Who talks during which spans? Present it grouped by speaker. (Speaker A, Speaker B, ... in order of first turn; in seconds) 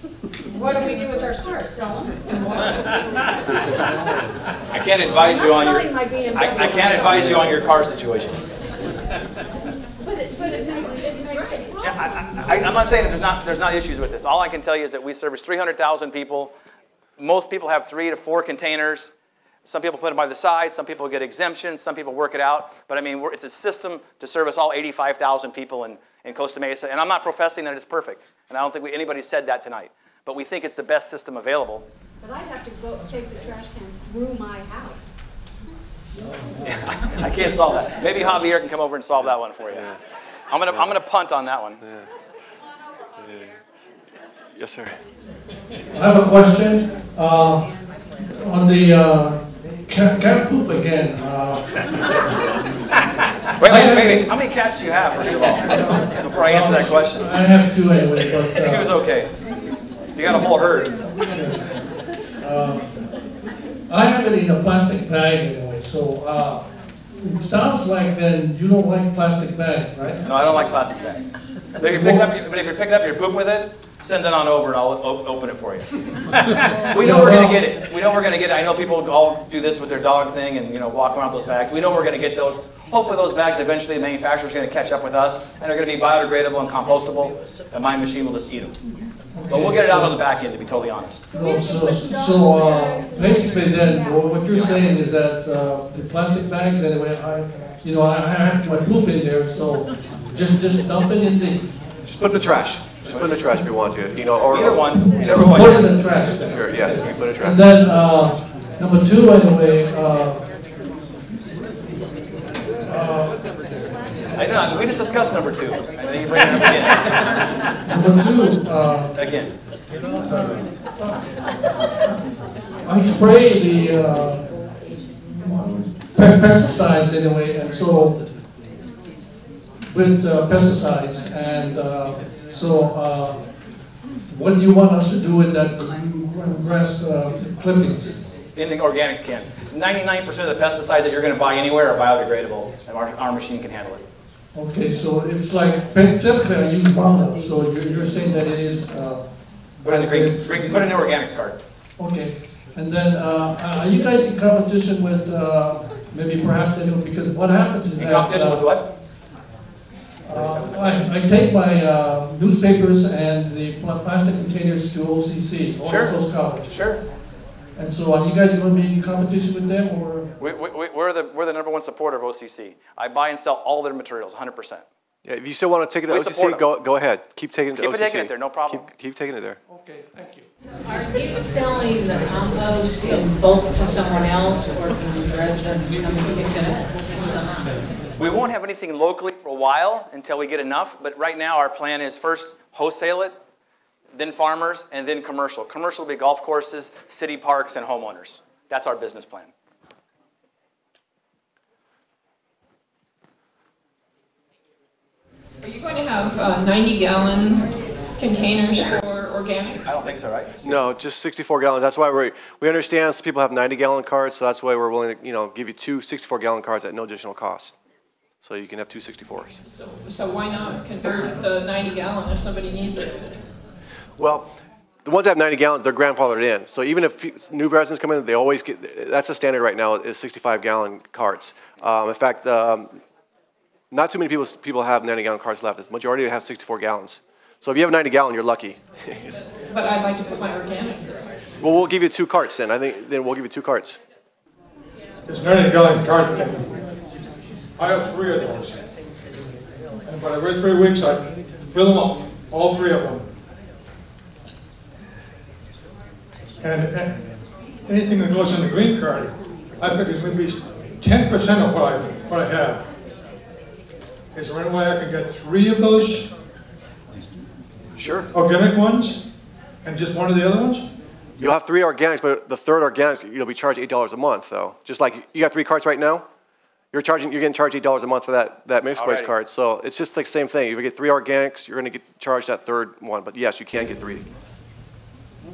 Speaker A: 0.5-3.4, 5.0-7.6, 10.0-12.4, 32.2-35.0, 91.3-94.3
Speaker B: 4.7-8.4, 11.8-16.5, 17.2-19.1, 19.6-31.9, 36.6-39.9, 40.5-41.8, 53.6-57.3, 58.5-59.3, 60.1-61.0, 70.2-75.9, 76.9-88.7, 89.5-91.2, 94.5-94.8, 103.1-103.4, 104.5-105.8, 114.3-117.2, 119.1-119.5, 138.5-144.0, 149.8-151.6, 157.9-158.9, 160.3-161.1, 165.8-167.0, 170.4-174.8, 176.1-176.7, 177.7-178.9, 188.2-193.4, 194.1-199.5, 209.8-210.8, 278.9-279.3
Speaker C: 41.8-42.1, 43.2-43.5, 44.5-45.0, 102.0-105.7, 106.5-107.6, 175.2-179.6, 210.6-217.7, 218.4-219.6, 224.2-233.0, 233.9-239.4, 241.6-244.0, 268.0-268.3, 271.4-276.2, 276.9-284.2
Speaker D: 45.9-47.6, 48.3-51.6, 53.6-54.3, 55.7-58.9, 61.3-61.6, 62.4-62.9, 63.9-70.2, 71.8-72.3, 76.9-77.6, 89.3-90.1, 91.3-101.7, 105.0-110.4, 112.8-113.4, 117.8-119.1, 120.2-120.6, 122.8-124.5, 125.4-128.2, 129.9-133.5, 134.3-138.2, 144.5-150.8, 152.0-158.6, 160.2-166.9, 167.8-170.3, 179.7-180.5
Speaker E: 180.9-187.9
Speaker F: 205.6-209.9, 219.7-223.4, 239.7-241.3
Speaker G: 245.2-246.7, 247.8-248.8, 250.0-253.3, 256.6-257.2, 257.9-262.8, 264.3-266.3, 268.3-269.2, 269.8-270.8